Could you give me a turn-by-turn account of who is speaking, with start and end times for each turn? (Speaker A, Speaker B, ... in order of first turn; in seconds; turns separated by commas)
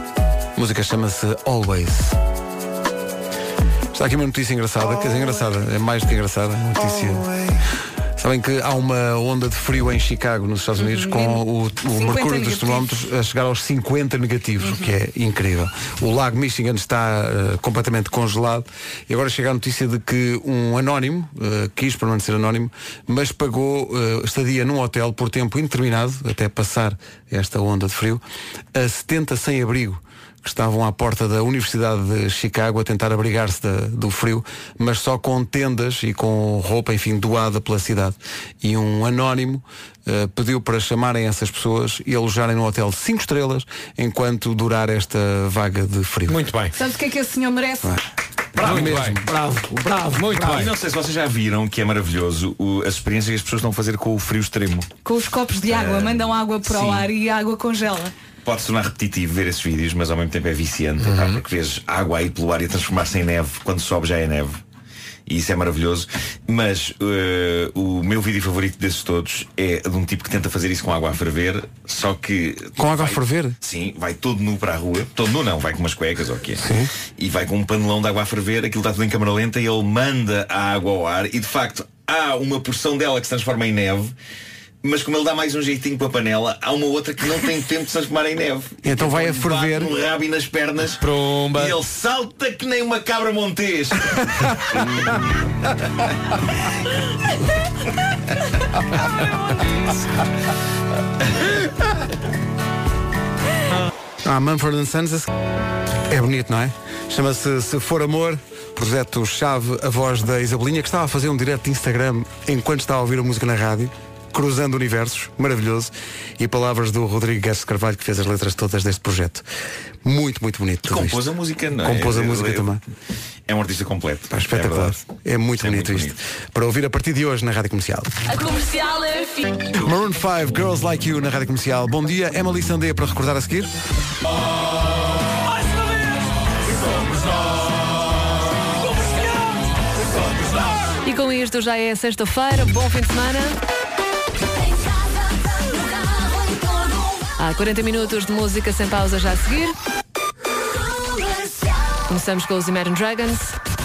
Speaker A: 0.5-2.1, Speaker A: 3.9-7.3, Speaker A: 8.2-28.2, Speaker B: 10.8-12.9, Speaker B: 14.6-14.9, Speaker A: 28.7-46.4, Speaker C: 46.3-46.7, Speaker B: 46.7-48.0, Speaker A: 48.6-50.7, Speaker C: 48.6-50.7, Speaker D: 48.6-49.0, Speaker D: 50.3-54.9, Speaker B: 55.0-58.1, Speaker D: 55.6-57.1, Speaker D: 58.4-64.6, Speaker D: 65.3-84.1, Speaker A: 72.8-73.6, Speaker A: 76.6-76.9, Speaker D: 84.8-94.6, Speaker A: 88.8-89.9, Speaker C: 91.0-91.8, Speaker A: 104.2-105.3, Speaker A: 106.1-119.4, Speaker A: 120.0-122.8, Speaker D: 120.8-122.8, Speaker D: 123.5-125.0, Speaker A: 124.3-128.1, Speaker D: 125.6-126.2, Speaker E: 128.4-129.2, Speaker A: 129.8-133.7, Speaker E: 141.0-143.6, Speaker E: 147.3-149.8, Speaker E: 152.1-153.6